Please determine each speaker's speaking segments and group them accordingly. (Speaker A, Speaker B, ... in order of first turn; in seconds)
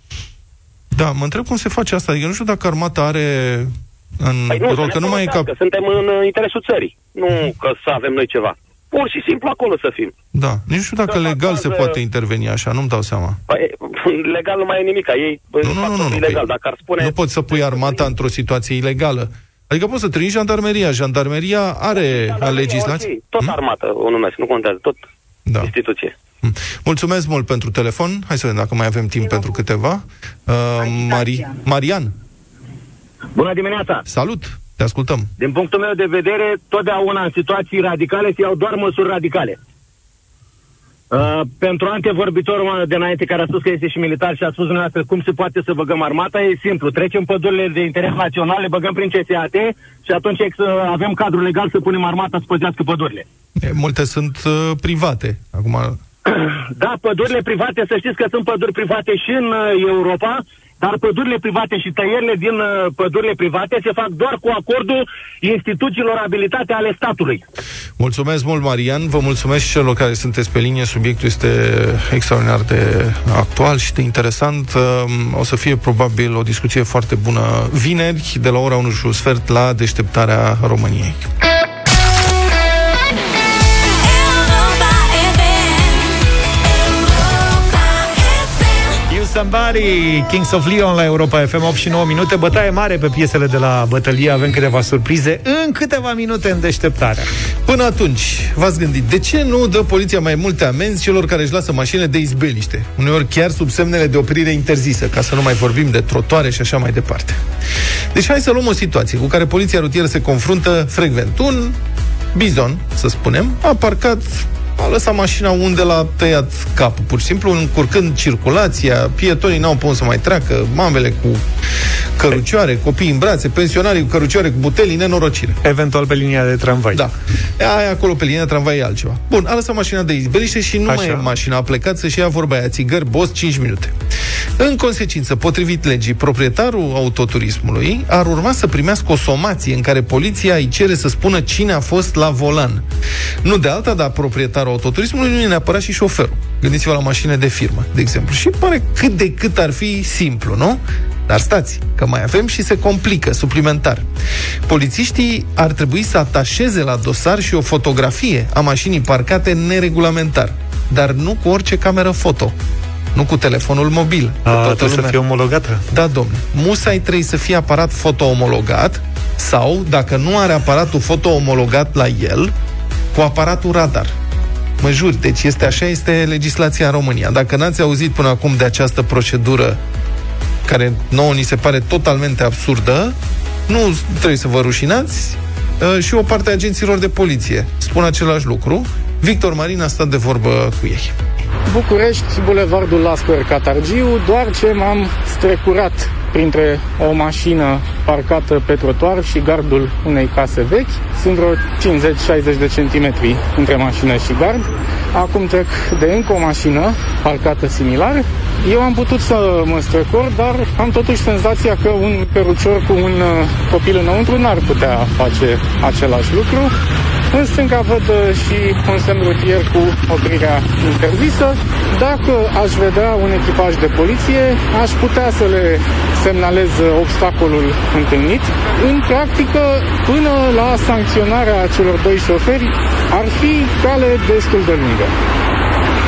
Speaker A: 0.9-5.5, 10.3-13.4, 15.6-16.4, 17.0-23.6, 26.4-32.1, 34.1-35.3, 53.6-56.0, 68.0-81.2, 97.6-107.4, 108.1-111.8, 112.3-121.5, 122.2-125.6, 126.9-133.9, 134.6-142.8, 143.4-154.1, 154.7-162.5, 163.1-165.2, 165.9-172.5, 173.1-174.1, 174.8-179.8, 180.7-183.1, 183.7-191.2
Speaker B: 4.5-10.1, 11.1-12.0, 13.5-18.1, 21.9-25.0, 25.6-26.1
Speaker C: 33.3-34.0, 35.4-39.6, 41.1-53.2, 56.3-67.4
Speaker D: 89.1-97.3, 125.6-127.0, 130.9-131.3, 164.4-165.8
Speaker E: 191.7-216.7, 217.3-235.1